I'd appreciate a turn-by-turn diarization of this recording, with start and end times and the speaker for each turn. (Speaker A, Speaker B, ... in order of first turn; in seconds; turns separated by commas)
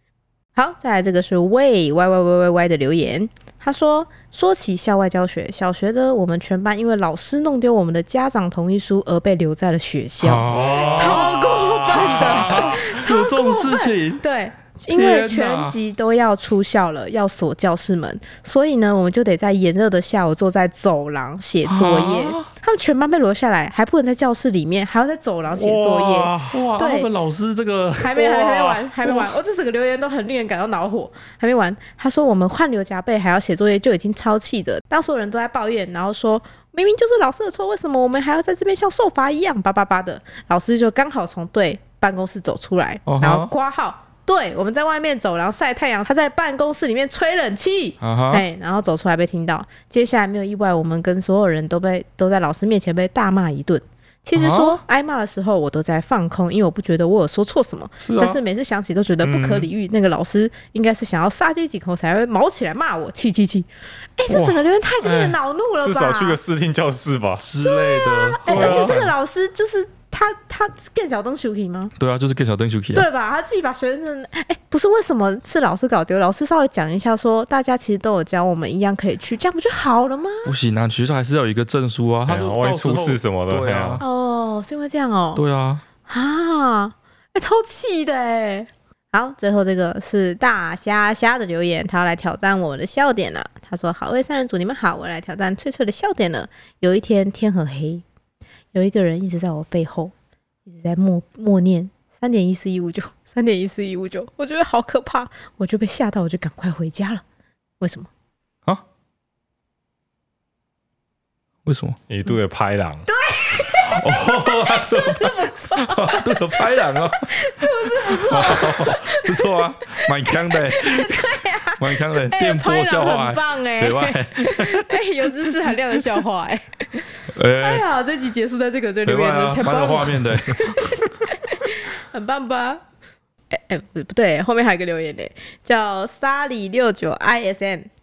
Speaker A: 0.6-27.1, Speaker B: 10.2-14.2, Speaker C: 10.5-12.8, Speaker B: 14.9-15.8, Speaker B: 21.6-22.5, Speaker C: 25.6-26.6, Speaker B: 26.4-29.4, Speaker A: 28.0-66.4, Speaker B: 43.1-43.5, Speaker B: 48.0-48.4, Speaker B: 54.4-54.8, Speaker B: 58.0-58.4, Speaker C: 59.2-59.7, Speaker B: 64.3-64.6, Speaker C: 65.0-67.5, Speaker B: 67.4-69.1, Speaker A: 67.6-71.9, Speaker C: 68.5-68.9, Speaker B: 72.0-73.1, Speaker A: 72.9-80.5, Speaker B: 80.5-84.0, Speaker C: 82.3-84.0, Speaker A: 84.0-85.4, Speaker B: 85.4-85.8, Speaker A: 86.1-98.0, Speaker A: 98.7-100.1, Speaker A: 100.7-107.2, Speaker A: 107.8-108.1, Speaker B: 111.7-112.0, Speaker C: 112.1-113.1, Speaker A: 113.1-119.4, Speaker B: 113.8-125.5, Speaker A: 120.3-127.0, Speaker B: 127.3-127.9, Speaker A: 127.6-132.8, Speaker B: 129.1-131.1, Speaker A: 133.5-137.9